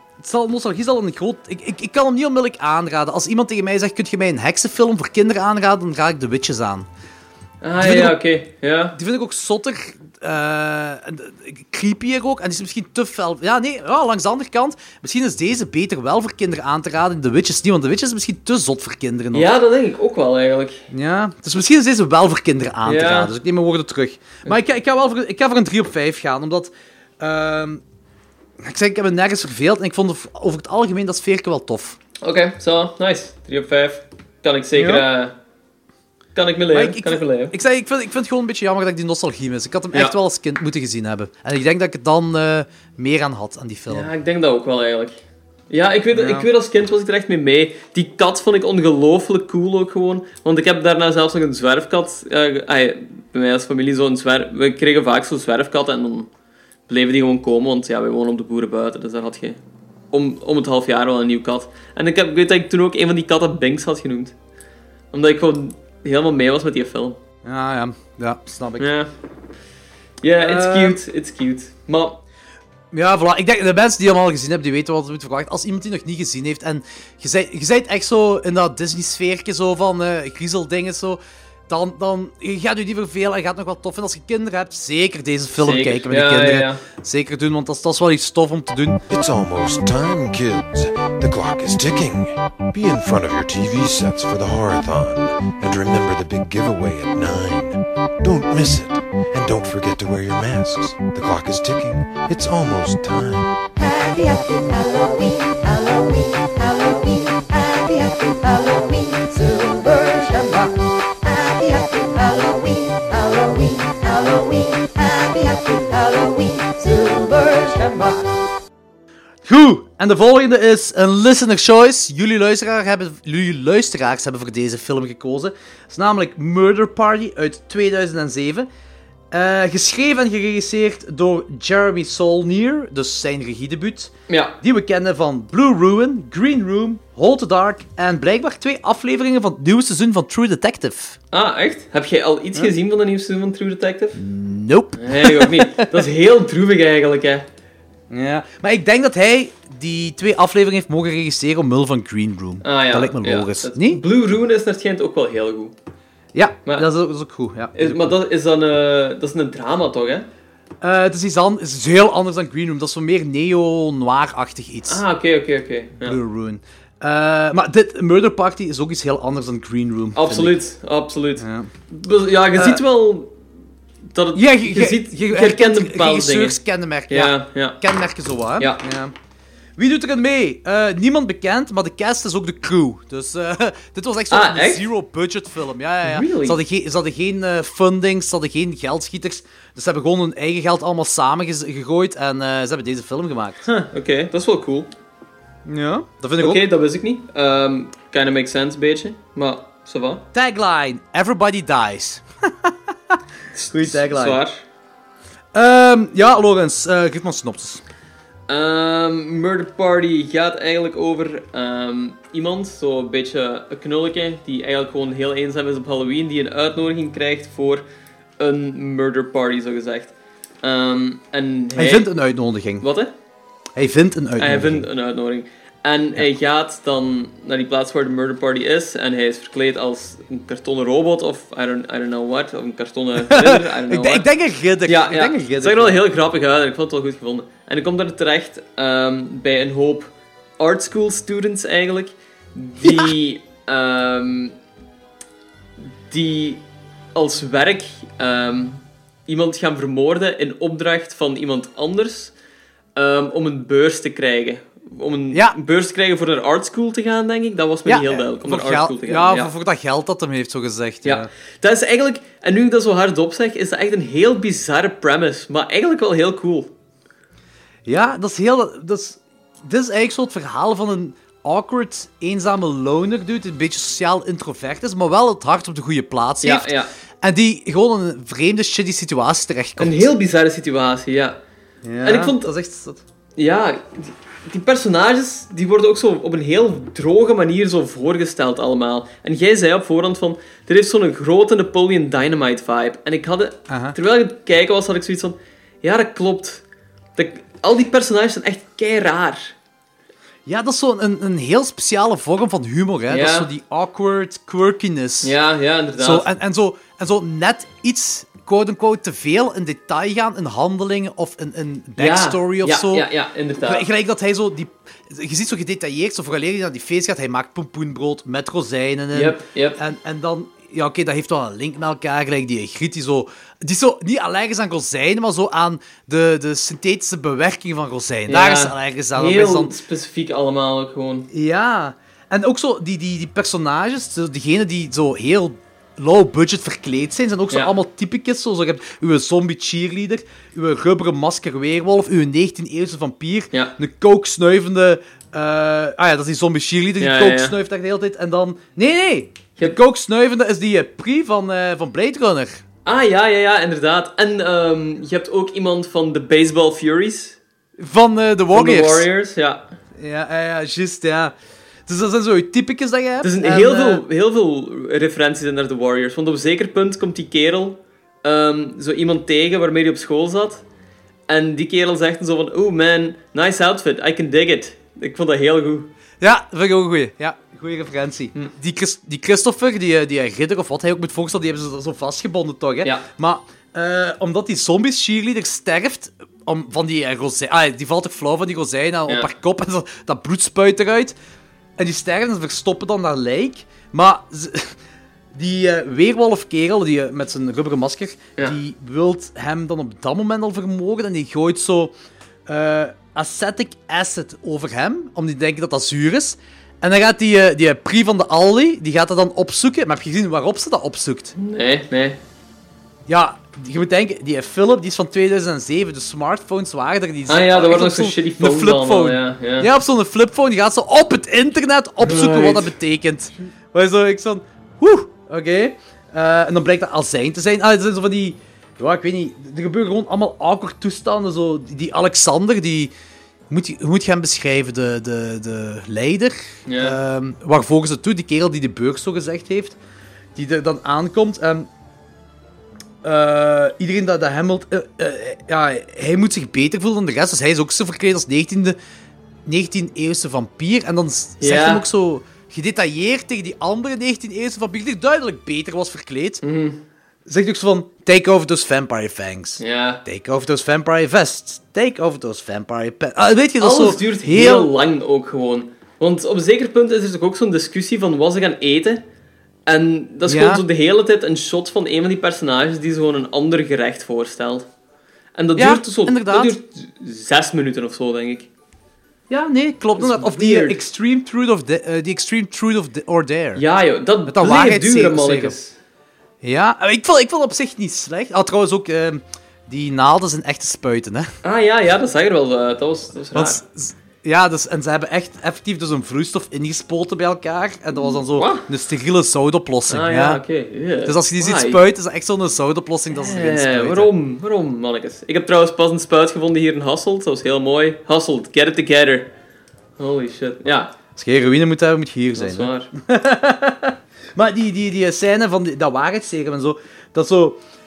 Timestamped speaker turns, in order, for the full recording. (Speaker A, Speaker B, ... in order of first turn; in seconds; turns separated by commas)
Speaker A: 0.2-6.9, Speaker B: 7.6-9.0, Speaker A: 7.8-8.2, Speaker A: 8.9-19.5, Speaker B: 19.3-20.9, Speaker A: 20.9-27.8, Speaker B: 22.9-23.3, Speaker A: 28.6-32.0, Speaker B: 32.2-35.3, Speaker A: 34.8-35.1, Speaker B: 36.4-37.5, Speaker A: 36.7-44.1, Speaker B: 43.9-56.3, Speaker A: 46.1-46.5, Speaker B: 56.9-59.6, Speaker B: 60.1-64.3, Speaker B: 65.1-67.2, Speaker A: 67.4-68.9, Speaker B: 68.8-69.1, Speaker B: 70.2-72.2, Speaker A: 70.4-71.0, Speaker A: 72.9-89.0, Speaker B: 85.6-86.8, Speaker C: 89.1-103.6, Speaker D: 103.8-118.3, Speaker A: 119.5-128.7, Speaker A: 129.3-141.2, Speaker B: 134.3-134.6, Speaker B: 141.3-144.2, Speaker A: 144.2-146.0, Speaker B: 145.0-147.5, Speaker A: 148.1-154.0, Speaker B: 152.6-155.7, Speaker A: 156.3-158.2, Speaker B: 157.7-160.3, Speaker A: 160.8-165.0, Speaker B: 164.9-166.2, Speaker A: 166.0-170.6, Speaker B: 170.2-173.3, Speaker A: 171.4-171.7, Speaker A: 172.6-172.8, Speaker B: 174.1-177.8, Speaker A: 174.3-179.1, Speaker A: 179.8-193.6, Speaker B: 184.3-184.9, Speaker B: 186.1-186.6, Speaker B: 193.7-194.9, Speaker A: 195.7-196.6, Speaker B: 196.4-200.2, Speaker A: 200.3-203.2, Speaker B: 203.5-204.6, Speaker A: 203.7-204.4, Speaker A: 205.5-207.8, Speaker B: 208.5-217.8, Speaker B: 218.4-220.1, Speaker B: 220.6-222.1, Speaker A: 221.8-222.9, Speaker B: 222.8-223.1, Speaker A: 223.8-224.8, Speaker B: 224.4-234.3, Speaker A: 233.2-236.0, Speaker B: 234.8-244.6, Speaker A: 242.8-243.1, Speaker B: 246.1-246.6, Speaker B: 247.2-252.3, Speaker B: 253.0-259.5, Speaker A: 255.3-255.6, Speaker A: 257.9-261.3, Speaker B: 261.1-266.7, Speaker A: 267.9-280.1, Speaker B: 276.4-276.9, Speaker B: 279.8-281.4, Speaker A: 281.8-283.0, Speaker B: 282.0-282.5, Speaker B: 283.4-296.6, Speaker A: 293.7-294.0, Speaker B: 297.2-299.6, Speaker A: 300.5-305.4, Speaker B: 303.1-303.5, Speaker B: 305.2-306.2, Speaker A: 306.0-313.1, Speaker B: 312.0-313.9, Speaker A: 313.6-329.8, Speaker B: 319.1-319.8, Speaker B: 328.3-331.3, Speaker A: 331.3-352.6, Speaker B: 347.0-347.6, Speaker B: 352.9-357.4, Speaker A: 357.8-359.1, Speaker B: 358.5-359.7, Speaker A: 360.0-361.3, Speaker A: 361.9-364.0, Speaker B: 363.2-370.6, Speaker B: 371.3-375.9, Speaker A: 376.2-391.1, Speaker A: 391.8-394.8, Speaker A: 395.3-401.9, Speaker A: 402.5-411.4, Speaker B: 411.4-412.2, Speaker A: 413.1-432.9, Speaker B: 417.3-419.7, Speaker B: 422.0-422.7, Speaker A: 433.5-439.8, Speaker B: 436.7-437.0, Speaker A: 440.4-441.7, Speaker A: 443.0-448.8, Speaker A: 449.4-456.4, Speaker B: 451.4-451.8, Speaker B: 456.4-456.8, Speaker A: 457.3-464.7, Speaker B: 459.6-460.0, Speaker B: 463.6-469.0, Speaker B: 469.7-474.7, Speaker A: 470.3-470.6, Speaker B: 475.4-478.5, Speaker A: 475.6-476.6, Speaker A: 479.3-483.6, Speaker B: 480.0-480.8, Speaker B: 483.6-485.8, Speaker A: 484.2-485.6, Speaker A: 486.4-491.3, Speaker B: 491.4-493.6, Speaker A: 493.3-500.4, Speaker B: 498.0-498.6, Speaker B: 499.9-501.8, Speaker A: 501.1-504.1, Speaker B: 503.1-509.3, Speaker B: 510.0-510.9, Speaker A: 511.1-517.6, Speaker B: 512.4-512.9